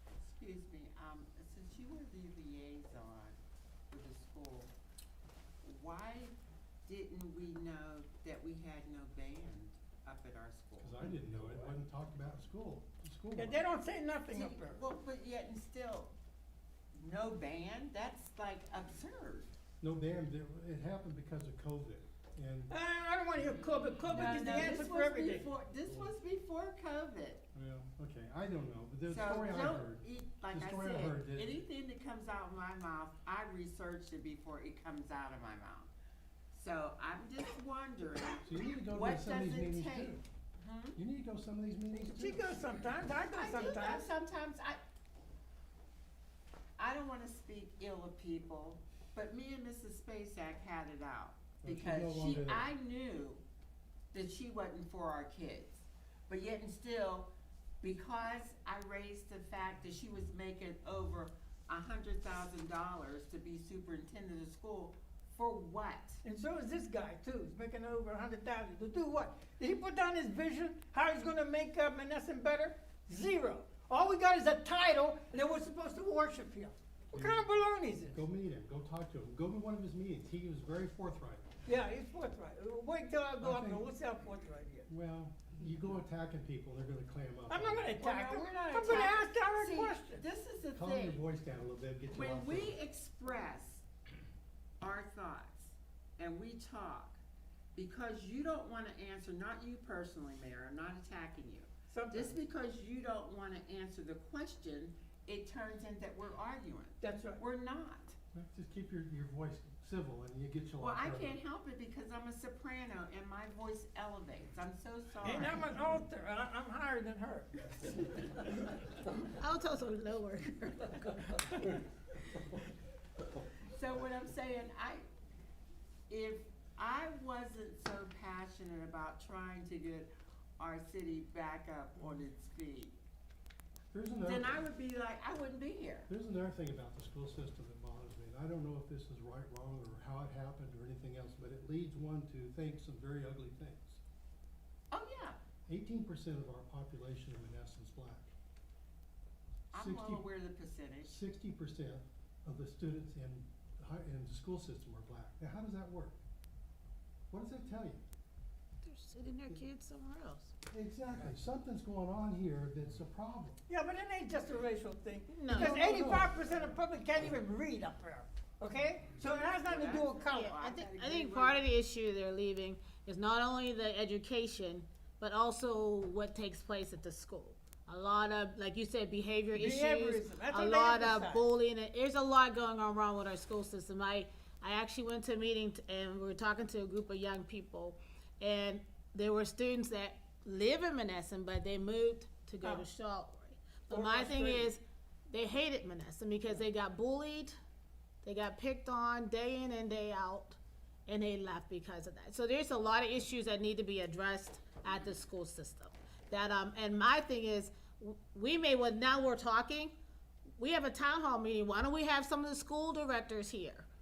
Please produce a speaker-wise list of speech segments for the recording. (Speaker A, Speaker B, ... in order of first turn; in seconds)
Speaker A: 0.2-3.4, 3.9-4.7, 5.6-6.3, 6.8-11.7, 14.3-16.1, 16.9-19.5, 23.6-27.4, 29.1-35.9, 36.5-41.0, 43.3-44.8, 46.8-53.4, 54.1-66.2, 88.0-91.2, 92.1-93.8, 94.8-97.2, 97.7-108.2, 110.8-115.6, 123.7-125.0, 126.1-132.9, 134.2-136.1, 144.9-145.4, 149.7-151.2, 169.2-171.6
Speaker B: 10.8-13.7, 19.8-22.7, 27.5-31.6, 38.4-40.2, 41.0-42.6, 51.6-52.6, 77.1-77.4, 78.1-81.5, 83.4-83.9, 84.9-87.9, 90.7-92.8, 108.3-111.4, 133.9-134.6, 136.1-144.0, 145.7-148.3, 149.7-150.2, 151.1-156.2, 157.3-158.0, 160.7-163.6, 165.5-166.3
Speaker C: 13.3-14.8, 22.7-25.5, 42.1-44.1, 66.2-78.2, 81.7-84.9, 87.5-90.2, 101.9-102.4, 107.0-107.4, 115.2-118.8, 121.3-121.7, 163.7-170.5, 179.5-181.5, 193.9-194.7
Speaker D: 119.4-121.3, 158.8-160.5, 165.3-165.9, 170.3-197.5, 198.2-209.9, 210.6-213.9